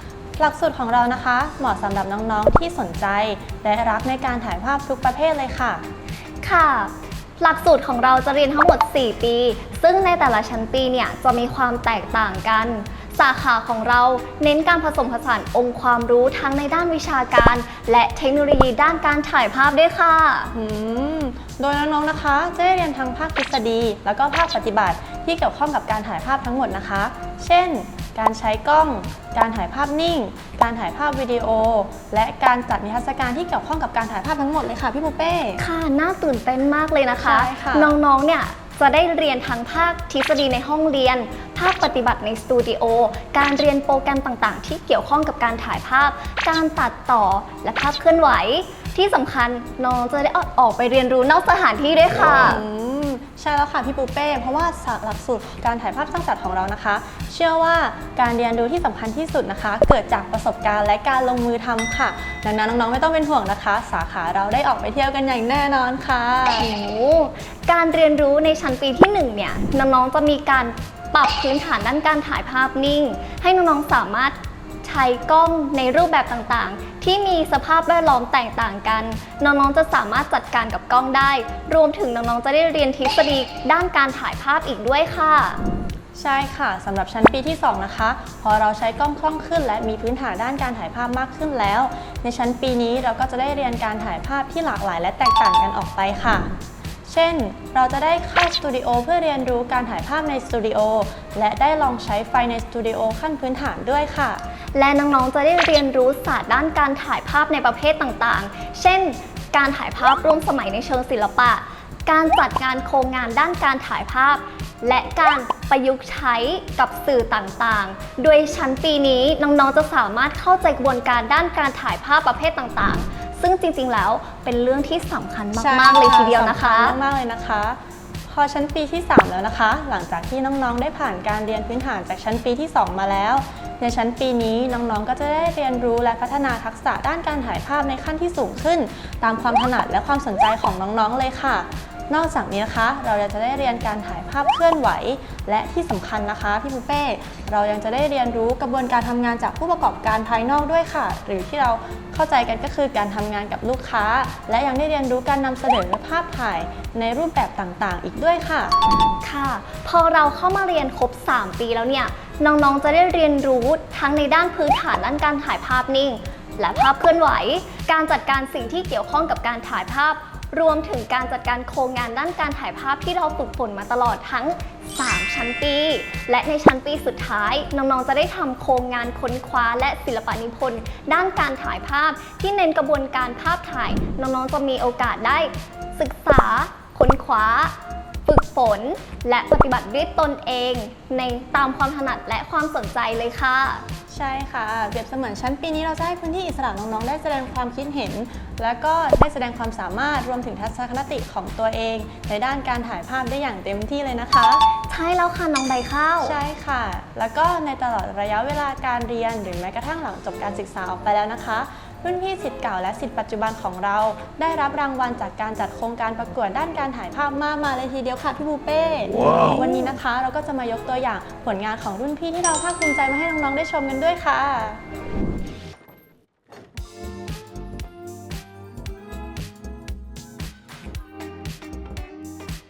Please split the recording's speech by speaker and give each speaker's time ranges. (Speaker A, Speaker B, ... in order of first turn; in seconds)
Speaker A: 0.4-5.8, 20.5-35.6, 37.2-38.0, 52.3-66.7, 86.1-96.5, 97.1-104.4, 125.6-158.8, 194.1-204.7, 206.2-224.8
Speaker B: 6.4-20.5, 35.6-52.6, 66.6-85.6, 104.8-127.0, 159.2-187.7, 188.2-193.8, 204.9-206.3